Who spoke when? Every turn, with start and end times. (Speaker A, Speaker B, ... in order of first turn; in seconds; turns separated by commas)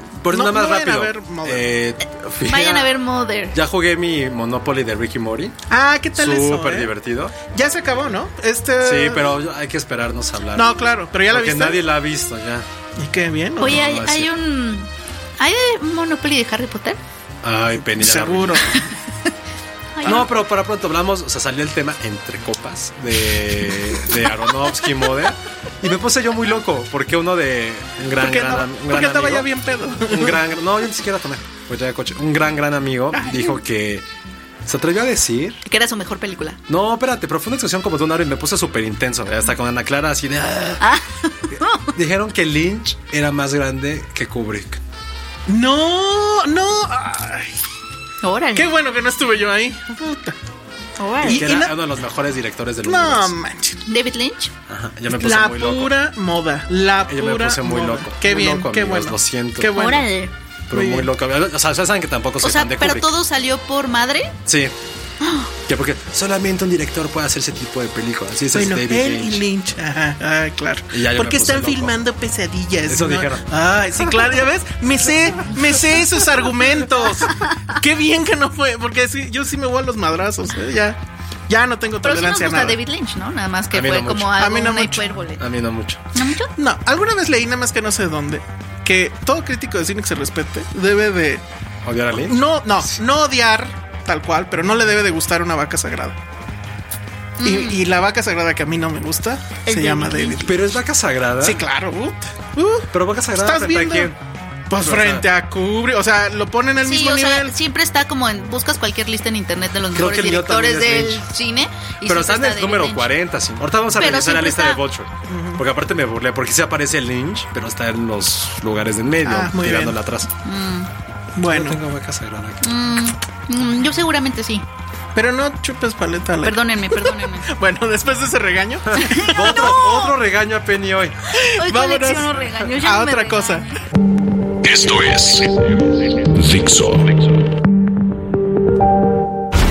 Speaker A: 0.2-2.9, Speaker B: 0.3-1.7, Speaker C: 2.5-3.6, Speaker A: 3.5-5.6, Speaker B: 5.7-6.9, Speaker A: 6.1-7.3, Speaker B: 7.5-9.4, Speaker A: 8.8-10.8, Speaker B: 10.6-11.8, Speaker A: 11.3-12.7, Speaker B: 13.0-13.8, Speaker C: 13.6-17.0, Speaker A: 13.6-14.3, Speaker A: 17.4-18.6, Speaker B: 17.8-18.9, Speaker C: 19.9-20.3, Speaker A: 20.0-29.5, Speaker B: 28.2-30.4, Speaker A: 30.1-34.0, Speaker A: 34.7-35.6, Speaker C: 35.7-36.6, Speaker A: 36.7-40.8, Speaker C: 40.8-41.9, Speaker A: 41.9-44.8, Speaker B: 45.5-47.5, Speaker C: 48.2-48.7, Speaker B: 48.5-50.4, Speaker C: 51.0-51.5, Speaker B: 51.2-51.8, Speaker A: 51.3-53.4, Speaker B: 52.8-53.8, Speaker C: 53.9-54.5, Speaker A: 54.7-55.9, Speaker B: 55.1-60.2, Speaker A: 57.1-59.7, Speaker C: 59.7-60.3, Speaker A: 60.7-63.1, Speaker B: 60.7-61.1, Speaker C: 62.4-64.3, Speaker A: 64.5-64.7, Speaker C: 65.2-65.5, Speaker A: 65.7-69.4, Speaker B: 68.5-81.0, Speaker A: 70.9-72.0, Speaker A: 72.9-73.5, Speaker B: 81.5-82.8, Speaker C: 82.0-85.4, Speaker A: 83.7-84.4, Speaker B: 84.4-85.1, Speaker A: 85.4-86.0, Speaker C: 86.1-86.5, Speaker B: 86.6-91.4, Speaker A: 91.8-92.4, Speaker B: 92.2-96.2, Speaker C: 97.4-97.8, Speaker B: 97.4-100.6, Speaker C: 99.7-100.5, Speaker A: 100.4-101.6, Speaker B: 101.4-104.1, Speaker A: 102.9-104.2, Speaker B: 104.7-107.5, Speaker A: 104.8-105.3, Speaker C: 106.8-113.1, Speaker A: 110.0-111.3, Speaker A: 112.0-120.3, Speaker C: 114.0-114.8, Speaker B: 115.3-115.6, Speaker B: 119.2-120.0, Speaker C: 120.5-120.9, Speaker B: 121.4-121.8, Speaker A: 121.5-122.7, Speaker C: 122.6-124.7, Speaker B: 125.2-129.6, Speaker C: 126.4-127.5, Speaker A: 128.9-131.2, Speaker C: 129.1-130.1, Speaker B: 131.3-133.7, Speaker C: 131.6-133.7, Speaker D: 134.6-137.5